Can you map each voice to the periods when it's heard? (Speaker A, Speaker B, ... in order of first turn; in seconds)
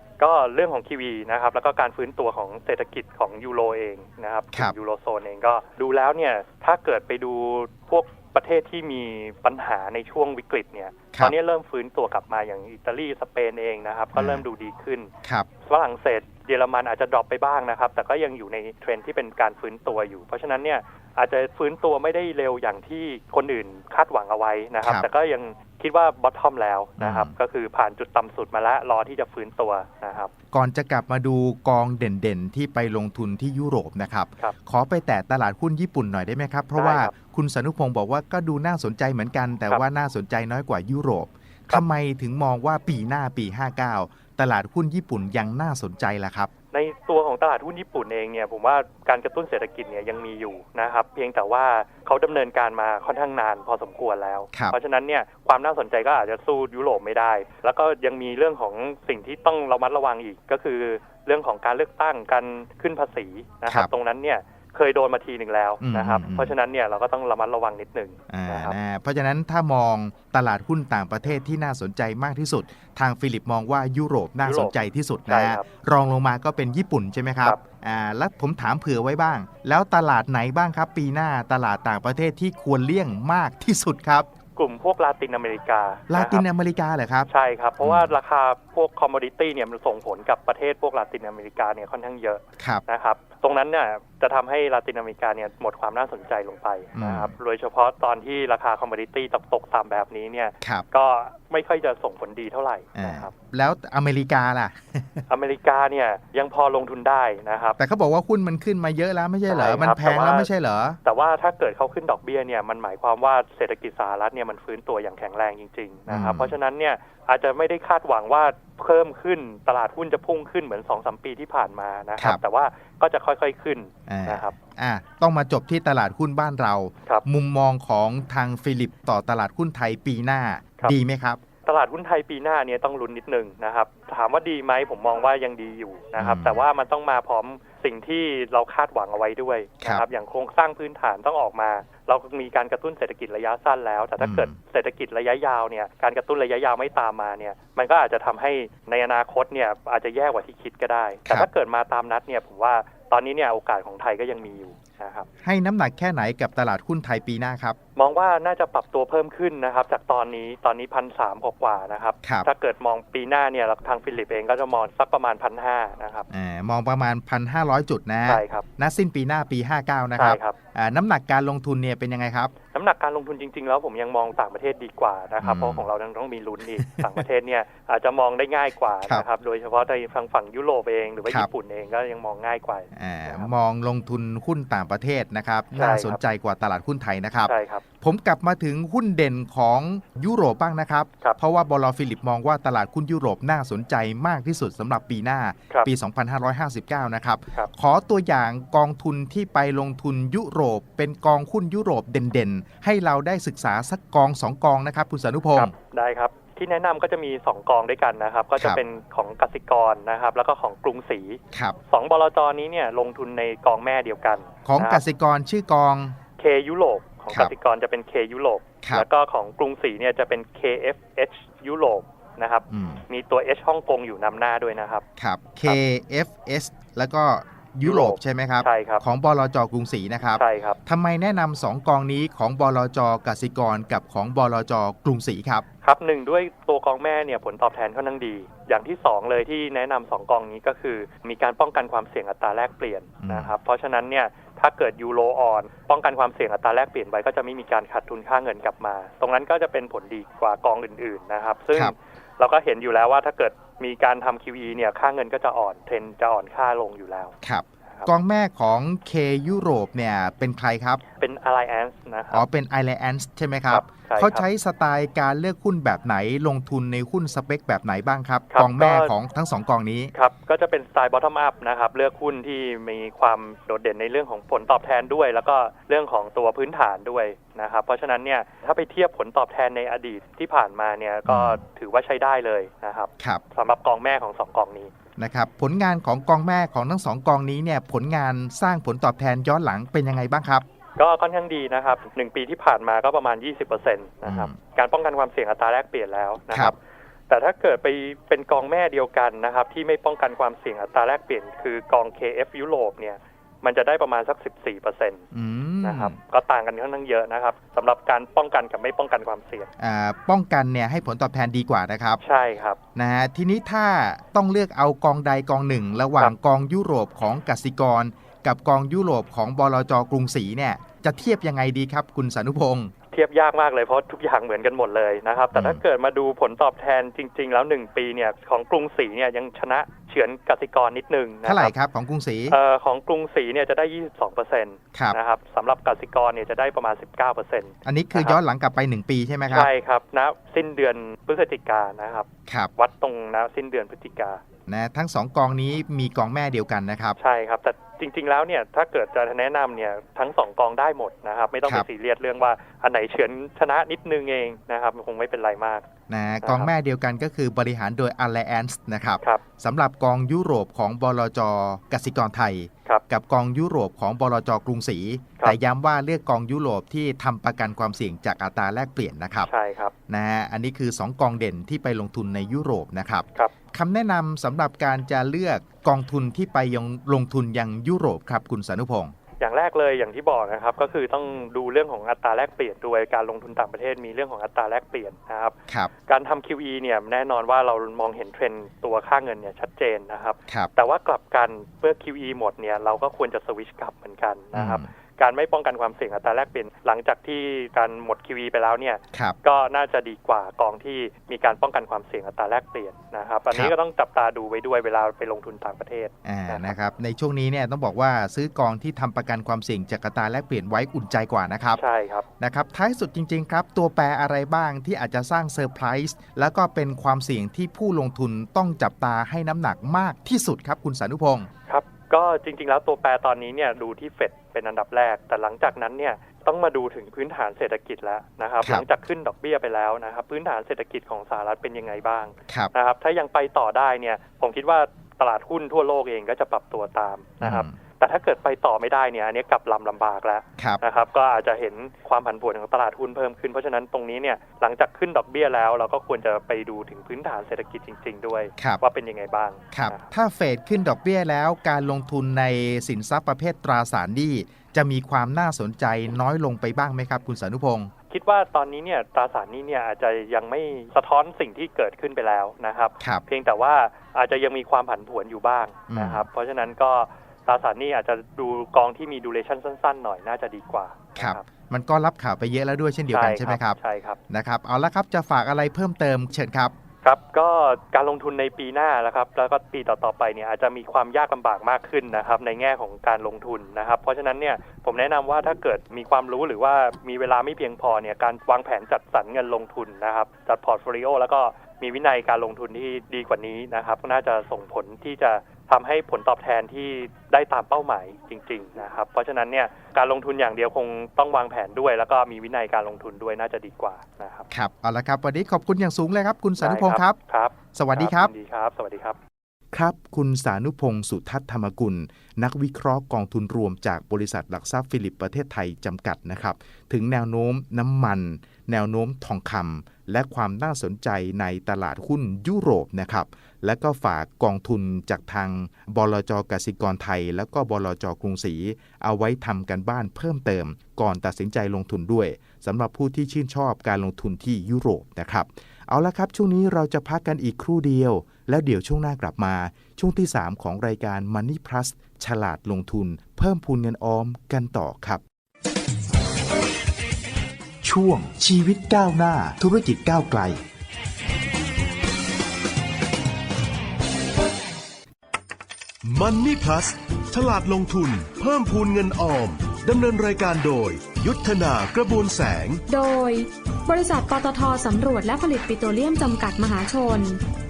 Speaker A: 0.2-15.1, 15.6-30.3, 36.8-37.1, 46.7-68.8, 74.4-74.7, 75.2-75.6, 84.5-86.5, 87.3-103.3, 105.3-107.8, 109.5-110.5, 111.0-124.5, 131.6-155.3, 157.9-166.3, 168.2-168.6, 170.2-170.6, 172.7-183.5, 185.7-186.2, 187.4-187.8, 205.5-215.0, 216.4-225.0, 227.8-229.0, 230.4-230.8, 235.8-257.3, 261.1-262.4, 263.7-264.5, 268.5-269.1, 270.1-284.9, 290.9-296.8, 297.3-305.2, 305.8-309.7, 312.2-312.8, 323.1-331.7, 332.5-338.4, 339.5-344.4, 347.2-355.8, 356.4-356.7, 369.4-369.9, 379.4-406.7, 411.8-412.2, 421.7-450.1, 458.1-471.4, 473.1-474.2, 477.0-504.4, 506.6-509.2
Speaker B: 14.1-14.4, 24.8-25.1, 27.0-27.3, 30.5-46.5, 65.8-66.5, 68.3-84.3, 86.1-87.3, 87.8-88.1, 92.6-92.8, 96.9-97.3, 102.9-105.2, 107.8-111.0, 116.1-116.6, 124.1-131.4, 136.2-136.6, 144.2-144.6, 155.4-157.8, 166.3-172.5, 175.4-175.9, 176.8-177.2, 182.9-205.7, 211.5-211.8, 214.6-216.2, 222.7-223.0, 225.2-235.6, 243.2-243.5, 257.4-261.0, 262.3-270.1, 281.2-281.6, 285.2-290.6, 294.2-294.6, 296.5-296.8, 305.3-306.1, 309.8-312.2, 312.9-322.9, 325.5-325.8, 331.4-332.6, 337.8-339.7, 342.5-342.7, 344.7-347.2, 356.1-369.5, 370.1-379.1, 394.5-394.9, 406.2-411.8, 412.4-421.5, 437.4-437.7, 449.7-457.9, 465.9-466.3, 471.1-473.8, 474.3-476.7, 504.5-507.2, 507.7-508.3, 509.7-545.2, 547.8-550.6
Speaker C: 556.0-562.8
Speaker D: 562.9-567.4